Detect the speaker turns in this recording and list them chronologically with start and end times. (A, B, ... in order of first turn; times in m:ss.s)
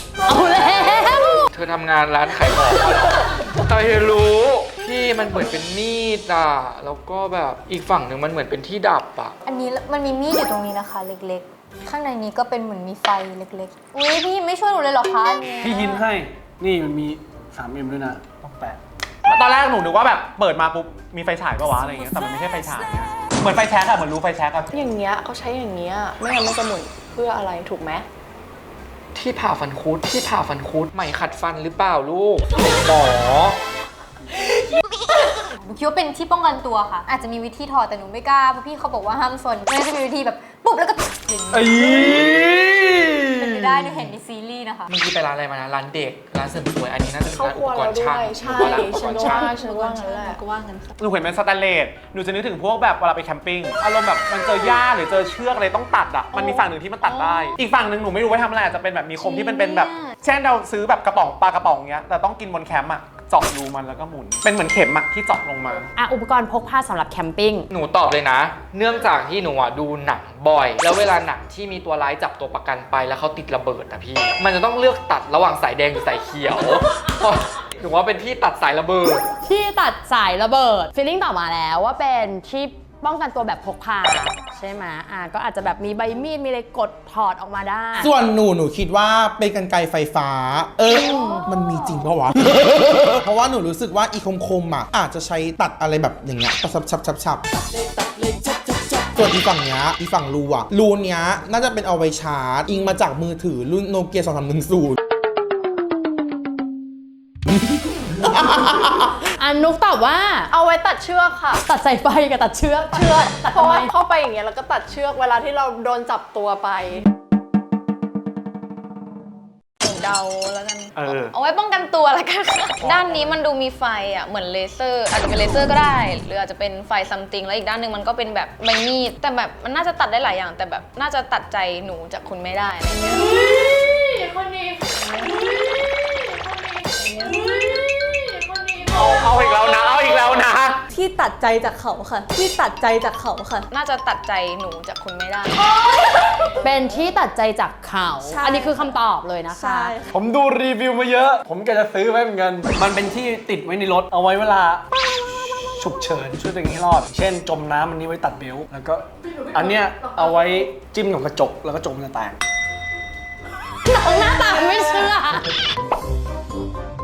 0:00.3-0:01.5 A
0:01.5-0:09.4 B
0:09.4-0:16.0 C
0:15.6-0:18.8 D
0:19.3-0:24.7 E
0:24.7-0:28.1 F
0:29.2-0:33.6 B
0:35.6-0:42.4 C
0:41.5-0:43.9 D
0:43.4-0:44.9 C
0:44.9-0:49.5 B
0:47.3-0:50.4 F
0:49.4-0:50.4 G
0:49.4-0:50.9 H
0:51.0-1:05.9 E
0:56.4-0:57.6 G
0:59.5-1:00.1 G
1:06.0-1:07.7 A
1:07.7-1:19.3 B
1:19.4-1:28.1 A
1:28.0-1:45.0 I
1:30.9-1:31.5 A
1:48.2-1:49.1 I
1:49.2-1:50.5 A
1:50.5-1:51.6 F
1:51.6-1:53.9 A
1:52.9-1:57.0 F
1:59.8-2:13.3 G
2:01.0-2:01.4 E
2:12.9-2:19.9 A
2:18.9-2:20.8 E
2:20.9-2:23.7 H
2:23.7-2:25.9 G
2:26.6-2:30.0 A
2:28.2-2:28.9 H
2:29.5-2:30.2 H
2:30.1-2:42.4 D
2:43.8-2:45.5 A